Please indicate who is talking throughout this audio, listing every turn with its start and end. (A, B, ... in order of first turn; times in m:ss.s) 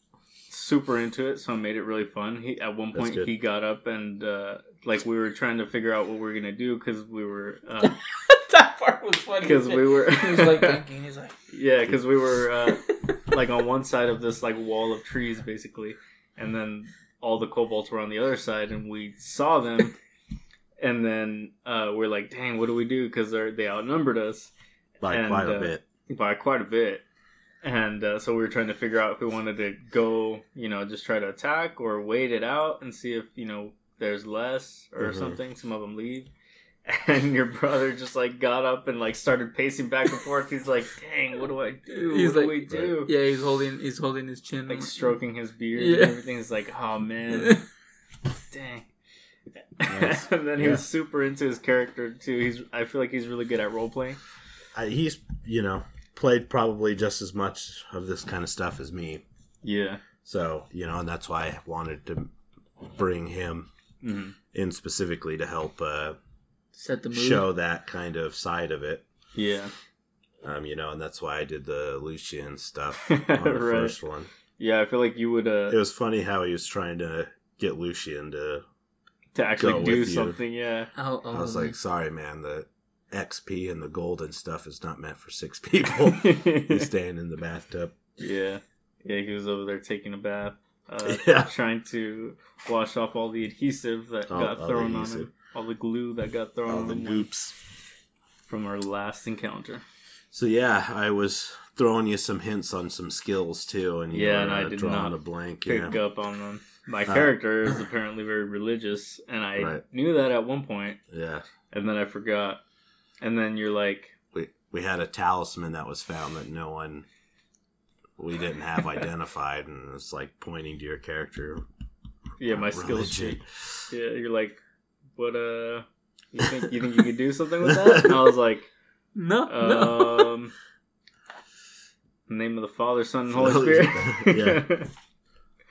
0:00.5-0:08.0 A
0:02.9-0:03.3 B
0:07.8-0:11.4 C
0:09.4-0:10.8 A
0:11.5-0:19.9 A
0:12.7-0:13.1 C
0:20.8-0:24.5 A
0:25.0-0:25.8 B
0:25.1-0:27.0 A
0:27.6-0:36.3 A
0:35.0-0:35.4 B
0:36.8-0:43.1 A
0:41.9-0:45.2 C
0:44.7-0:47.7 A
0:45.7-0:46.2 C
0:47.3-0:47.6 C
0:48.4-0:48.9 A
0:49.8-0:54.2 A
0:49.9-0:50.8 B
0:54.7-0:59.2 B
0:59.6-1:00.0 A
1:00.2-1:02.3 B
1:02.8-1:03.7 B
1:04.0-1:04.4 A
1:04.5-1:06.2 B
1:06.7-1:07.5 C
1:07.1-1:09.0 B
1:09.3-1:09.7 A
1:10.4-1:14.3 B
1:13.0-1:14.0 A
1:14.6-1:15.8 A
1:15.7-1:18.6 B
1:19.3-1:20.9 A
1:19.6-1:20.4 B
1:20.9-1:21.8 C
1:21.3-1:28.0 B
1:26.0-1:26.9 A
1:28.2-1:37.3 A
1:31.0-1:31.5 B
1:34.3-1:35.3 B
1:36.6-1:37.6 B
1:38.5-1:39.8 A
1:40.3-1:46.0 B
1:44.1-1:51.0 A
1:47.0-1:47.7 B
1:49.6-1:49.8 B
1:51.1-1:51.4 B
1:51.7-1:52.6 A
1:53.2-1:54.1 A
1:54.3-1:57.0 B
1:58.2-2:01.6 B
2:02.4-2:04.6 A
2:02.4-2:03.9 B
2:05.2-2:08.7 A
2:07.6-2:08.1 B
2:09.1-2:10.4 C
2:09.4-2:10.5 A
2:12.3-2:14.9 A
2:13.3-2:14.7 B